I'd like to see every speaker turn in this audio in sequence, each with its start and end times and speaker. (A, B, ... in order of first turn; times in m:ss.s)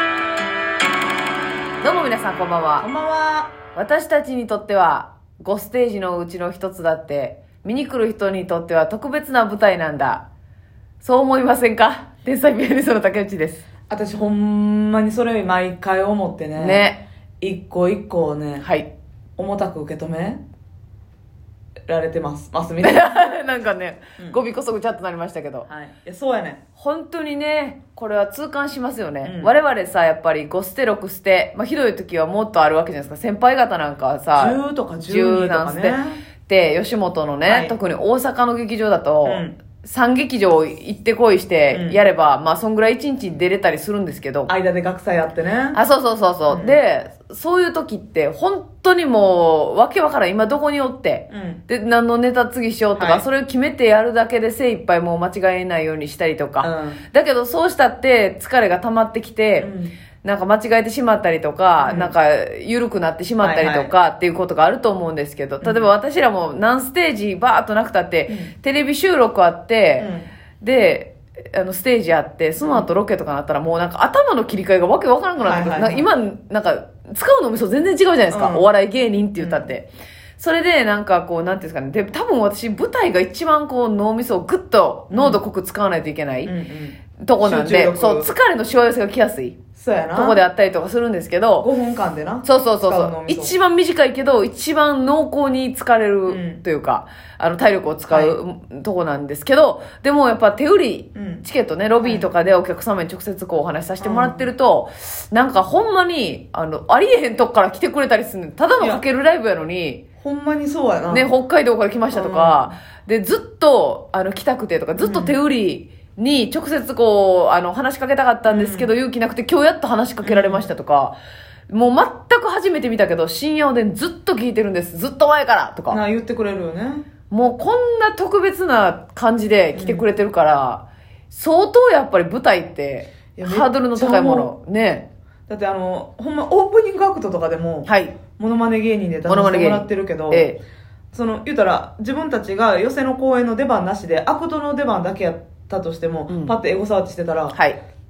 0:01.8-0:02.9 A
0:02.8-0:03.5 B
0:03.7-0:10.2 A
0:11.0-0:13.6 A
0:13.9-0:16.9 B
0:16.6-0:17.0 A
0:17.4-0:18.7 B
0:18.6-0:18.9 A
0:19.4-0:20.4 B
0:21.9-0:23.4 B
0:22.8-0:25.7 A
0:25.7-0:26.6 B
0:26.8-0:44.5 A
0:29.2-0:29.5 B
0:34.4-0:36.2 B
0:37.5-0:37.8 B
0:39.2-0:39.5 B
0:41.7-0:42.0 B
0:44.5-0:45.8 B
0:45.7-0:59.7 A
0:46.5-0:46.8 B
0:51.3-0:51.6 B
0:53.0-0:53.2 B
0:56.6-0:57.0 B
0:59.6-0:59.9 B
1:00.2-1:10.1 A
1:01.8-1:02.1 B
1:03.4-1:03.9 B
1:05.6-1:05.9 B
1:08.3-1:08.5 B
1:10.0-1:10.3 B
1:10.6-1:26.5 A
1:12.6-1:12.9 B
1:15.4-1:16.1 B
1:18.3-1:18.7 B
1:19.4-1:19.7 B
1:25.1-1:25.4 B
1:26.5-1:28.3 B
1:27.2-1:29.6 A
1:29.8-1:30.4 B
1:30.1-1:31.7 A
1:31.6-1:33.6 B
1:32.4-1:50.0 A
1:36.3-1:36.6 B
1:38.1-1:38.4 B
1:41.2-1:41.4 B
1:42.0-1:42.3 B
1:44.0-1:44.5 B
1:50.2-1:51.3 B
1:51.1-2:01.2 A
1:52.1-1:52.7 B
1:55.0-1:55.4 B
1:58.5-1:58.9 B
2:00.2-2:00.7 B
2:01.7-2:06.0 A
2:05.9-2:07.1 B
2:07.3-2:15.1 A
2:09.8-2:10.1 B
2:13.4-2:14.5 B
2:15.5-2:20.5 B
2:17.9-2:18.2 A
2:19.3-2:20.6 A
2:21.1-2:27.6 B
2:26.3-2:26.6 A
2:27.5-2:27.8 A